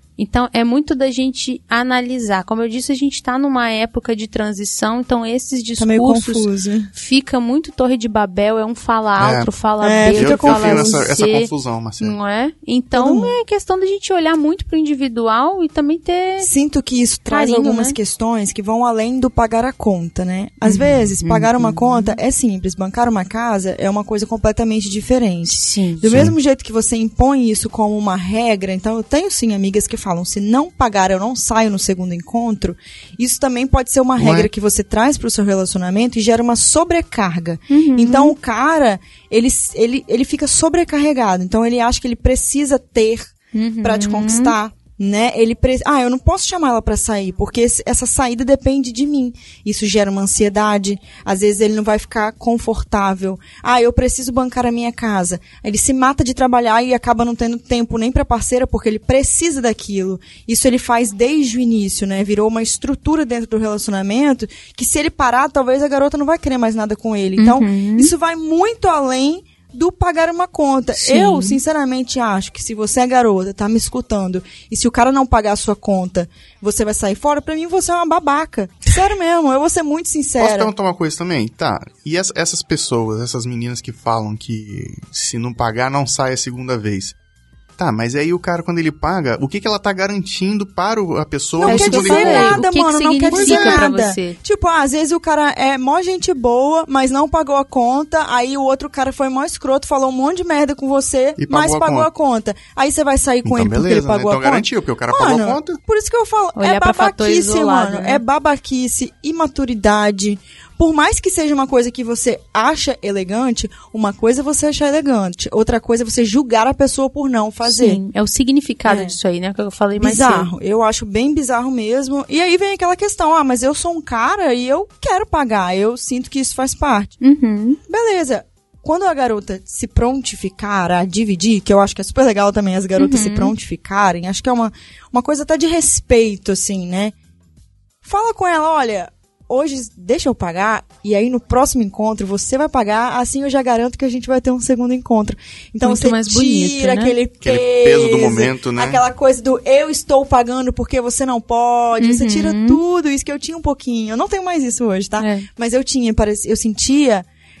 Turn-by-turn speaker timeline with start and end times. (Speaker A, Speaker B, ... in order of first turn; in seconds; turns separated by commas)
Speaker A: 0.2-16.5, Speaker B: 5.8-6.9, Speaker C: 9.2-9.5, Speaker B: 9.8-11.0, Speaker C: 10.1-12.2, Speaker B: 12.9-13.3, Speaker B: 16.4-80.7, Speaker A: 17.3-18.0, Speaker A: 20.6-21.0, Speaker C: 21.2-21.5, Speaker A: 21.6-22.1, Speaker A: 25.4-26.1, Speaker C: 26.0-26.4, Speaker C: 34.2-34.5, Speaker A: 37.7-38.3, Speaker A: 43.5-44.5, Speaker A: 67.4-68.1, Speaker A: 71.0-71.6, Speaker C: 80.4-87.1, Speaker C: 87.8-92.6, Speaker B: 91.6-118.0, Speaker A: 91.6-94.4, Speaker C: 93.3-93.8, Speaker C: 101.4-102.1, Speaker C: 103.4-105.8, Speaker A: 106.5-108.2, Speaker A: 117.6-120.5, Speaker B: 118.8-119.2, Speaker B: 120.0-127.2, Speaker A: 127.2-127.8, Speaker B: 127.9-137.1, Speaker A: 132.9-133.5, Speaker B: 138.0-157.2, Speaker A: 145.8-147.2, Speaker C: 147.4-149.0, Speaker A: 152.0-152.8, Speaker A: 155.2-155.4